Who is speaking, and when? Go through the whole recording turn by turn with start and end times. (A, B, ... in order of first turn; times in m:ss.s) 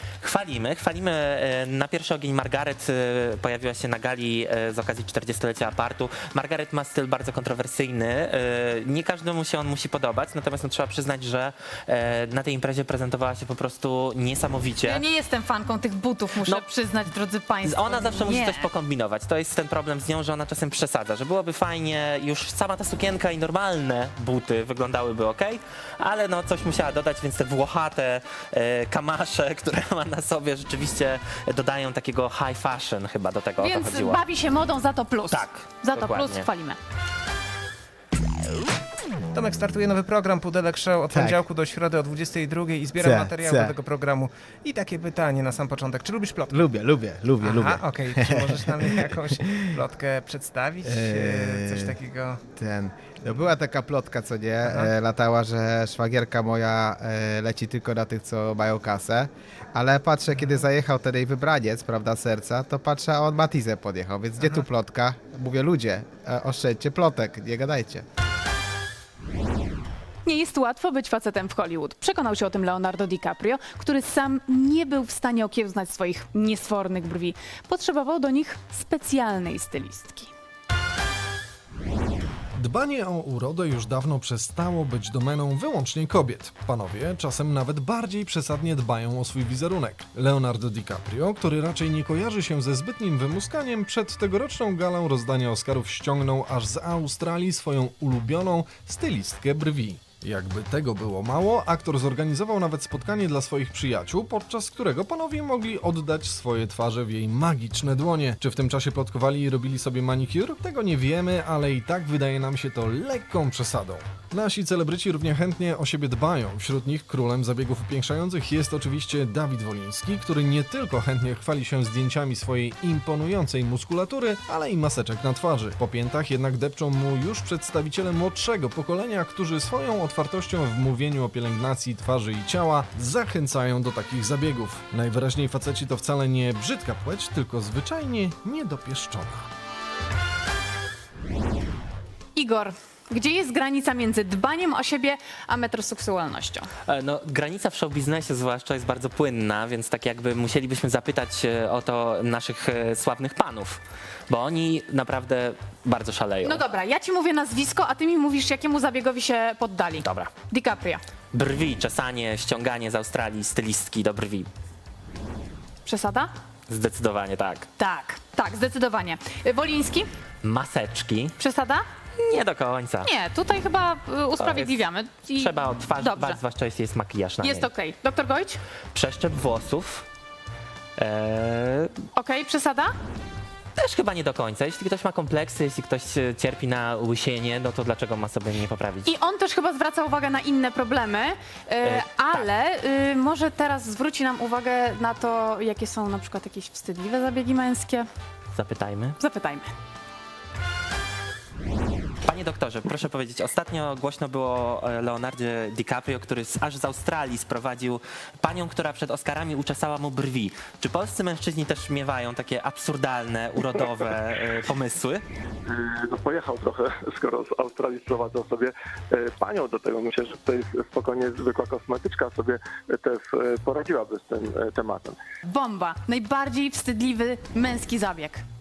0:00.2-0:15.0 A
0:14.8-0:18.7 B
0:17.6-0:34.2 A
0:33.6-0:36.8 B
0:35.3-0:36.4 A
0:39.3-0:46.5 C
0:41.1-0:41.4 D
0:43.0-0:43.8 D
0:46.5-0:49.8 D
0:47.4-0:52.4 C
0:50.8-0:52.0 D
0:52.6-1:08.1 D
1:10.2-1:20.3 B
1:22.6-2:19.5 E
2:22.4-2:26.7 B
2:26.9-2:36.6 A
2:36.4-2:41.0 B
2:40.0-2:40.3 A
2:41.3-2:44.5 A
2:45.8-2:46.3 B
2:46.7-2:47.7 A
2:47.8-2:50.1 B
2:50.4-2:51.3 A
2:51.4-2:51.8 B
2:52.2-2:53.1 A
2:53.0-2:56.4 B
2:54.4-2:54.8 A
2:55.4-2:57.7 A
2:57.4-2:58.6 B
2:58.9-3:00.1 A
3:01.0-3:02.0 A
3:02.1-3:02.9 B
3:03.8-3:09.1 A
3:09.0-3:18.1 B
3:11.8-3:12.5 A
3:18.5-3:19.2 A
3:19.2-3:19.7 B
3:22.2-3:35.2 A
3:35.7-3:45.2 F
3:45.5-3:48.4 B